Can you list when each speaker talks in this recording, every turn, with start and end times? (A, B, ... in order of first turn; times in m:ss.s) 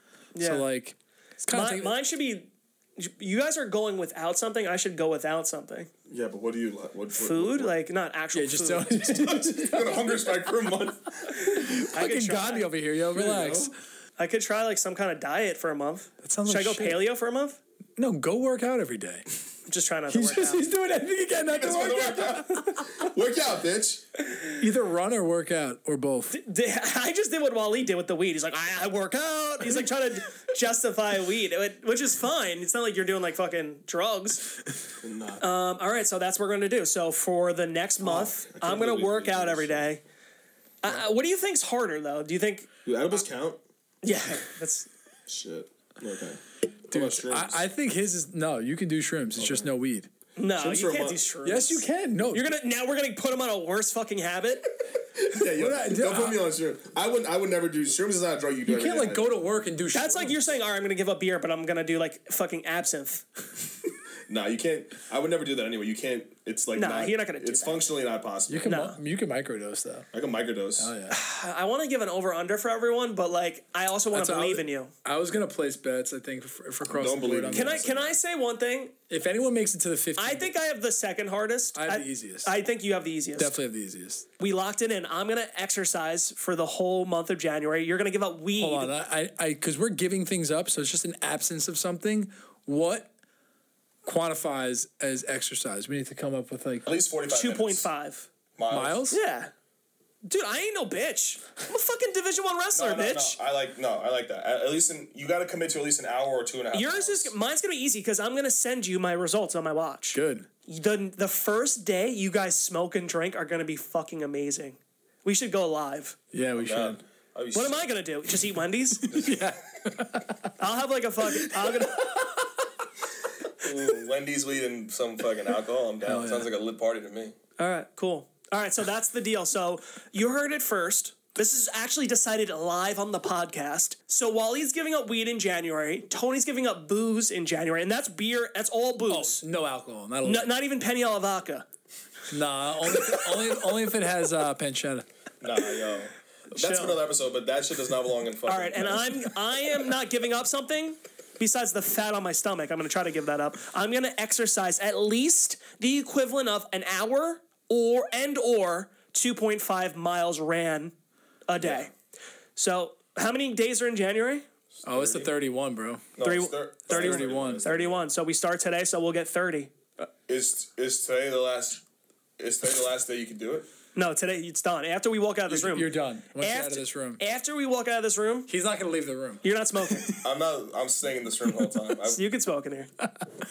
0:00.4-0:00.6 A
0:00.4-0:02.0 B
0:01.5-0:05.9 A
0:06.1-0:07.8 C
0:07.2-0:09.0 A
0:08.3-0:10.2 B
0:09.1-0:11.4 C
0:11.4-0:13.7 B
0:11.5-0:12.7 A
0:13.1-0:13.7 C
0:14.2-0:17.6 A
0:16.2-0:17.1 B
0:18.0-0:19.3 B
0:19.7-0:20.6 A
0:20.1-0:23.0 B
0:21.4-0:24.0 C
0:24.5-0:26.4 B
0:26.3-0:34.5 A
0:35.0-0:35.4 C
0:35.4-0:40.0 A
0:38.0-0:39.9 C
0:40.8-0:42.7 A
0:42.8-0:43.6 C
0:44.0-0:44.9 A
0:45.3-0:47.6 C
0:46.9-0:50.1 B
0:49.4-0:49.7 C
0:50.4-0:54.8 A
0:50.6-0:51.2 C
0:51.4-0:52.5 B
0:55.2-0:59.4 C
0:55.4-0:56.4 B
0:58.7-1:00.4 B
0:59.9-1:03.2 A
1:04.3-1:08.9 C
1:06.8-1:07.8 A
1:08.5-1:10.1 B
1:08.6-1:09.0 A
1:10.1-1:10.9 C
1:10.8-1:11.2 B
1:11.1-1:14.9 A
1:14.1-1:17.8 B
1:16.8-1:18.2 C
1:17.5-1:19.0 A
1:19.1-1:20.5 B
1:20.2-1:23.6 A
1:21.8-1:22.5 B
1:23.4-1:24.3 B
1:24.4-1:28.9 A
1:28.6-1:33.1 B
1:34.0-1:36.9 B
1:36.8-1:37.9 C
1:37.3-1:38.3 A
1:38.6-1:39.0 C
1:38.7-1:39.2 B
1:39.1-1:39.5 A
1:40.2-1:43.4 A
1:42.7-1:47.3 C
1:46.7-1:56.2 A
1:50.2-1:50.5 B
1:56.3-1:57.0 B
1:56.6-1:57.8 C
1:57.5-1:59.1 A
1:59.0-2:00.4 B
1:59.1-1:59.4 C
2:00.6-2:02.3 A
2:03.6-2:07.4 C
2:06.0-2:06.5 B
2:07.6-2:19.4 A
2:19.1-2:20.5 B
2:20.2-2:21.7 A
2:22.3-2:25.1 B
2:25.4-2:29.2 C
2:26.5-2:27.0 A
2:28.5-2:41.0 A
2:41.5-2:41.9 A
2:41.6-2:41.9 C
2:42.6-2:44.5 A
2:44.7-2:45.3 C
2:44.8-2:46.0 B
2:46.2-2:48.1 C
2:46.2-2:50.1 A
2:46.9-2:47.6 B
2:50.3-2:51.8 C
2:52.4-2:53.7 C
2:54.0-2:58.5 A
2:55.5-2:57.2 B
2:58.5-3:00.2 B
2:59.4-3:00.1 A
3:00.2-3:02.2 C
3:02.1-3:02.9 A